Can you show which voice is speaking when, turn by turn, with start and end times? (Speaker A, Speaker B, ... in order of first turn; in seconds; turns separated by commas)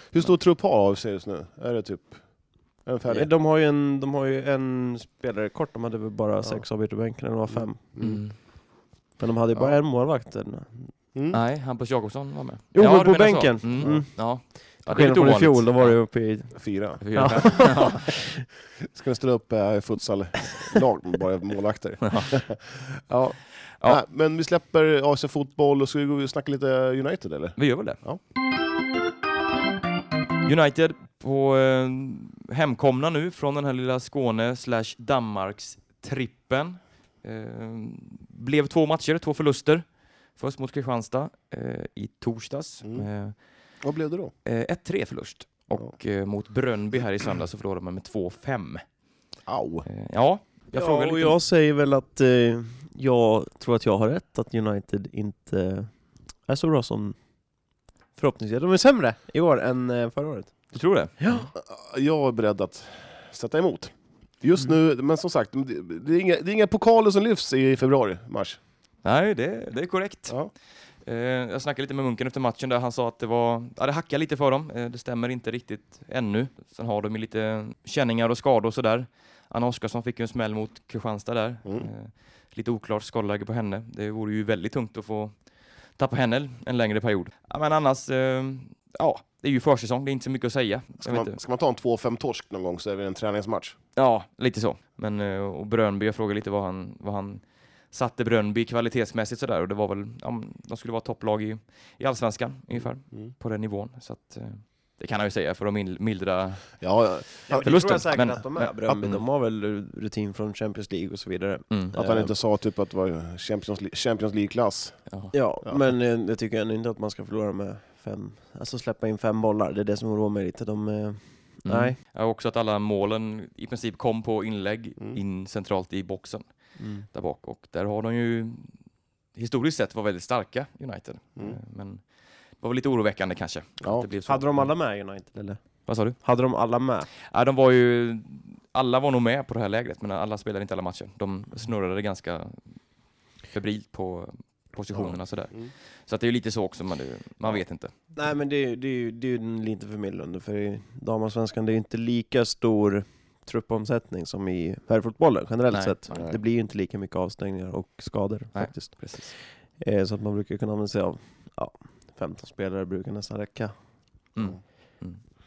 Speaker A: 0.1-3.3, Speaker B: 3.1-7.8, Speaker A: 7.5-8.2, Speaker C: 8.0-8.3, Speaker B: 9.2-10.7, Speaker A: 11.1-11.4, Speaker C: 11.3-16.1, Speaker B: 12.7-18.2, Speaker A: 13.8-14.0, Speaker A: 16.6-17.7, Speaker C: 17.0-18.1, Speaker A: 18.9-28.2, Speaker C: 27.6-28.0, Speaker C: 30.4-39.8, Speaker C: 40.4-43.4, Speaker A: 43.8-44.3, Speaker C: 44.5-48.8, Speaker A: 49.5-49.9, Speaker C: 49.9-51.4, Speaker B: 50.7-55.9, Speaker B: 56.5-57.1, Speaker B: 58.1-61.5, Speaker C: 60.7-61.4, Speaker A: 61.5-68.6, Speaker C: 69.0-70.4, Speaker C: 71.0-85.3, Speaker C: 86.0-91.3, Speaker A: 91.0-93.8, Speaker C: 94.0-106.9, Speaker A: 102.8-103.3, Speaker A: 106.8-108.0, Speaker B: 107.5-112.3, Speaker C: 107.6-109.2, Speaker A: 111.9-115.0, Speaker B: 115.3-122.0, Speaker C: 121.6-126.4, Speaker B: 126.8-127.0, Speaker C: 127.0-128.7, Speaker C: 129.3-132.0, Speaker C: 132.6-134.7, Speaker A: 133.8-134.1, Speaker B: 134.2-137.1, Speaker C: 135.8-136.2, Speaker C: 137.3-142.7, Speaker C: 143.5-147.9, Speaker A: 144.9-145.7, Speaker B: 148.2-163.7, Speaker C: 155.7-156.2, Speaker A: 156.1-156.4, Speaker C: 158.5-159.3, Speaker C: 164.3-165.2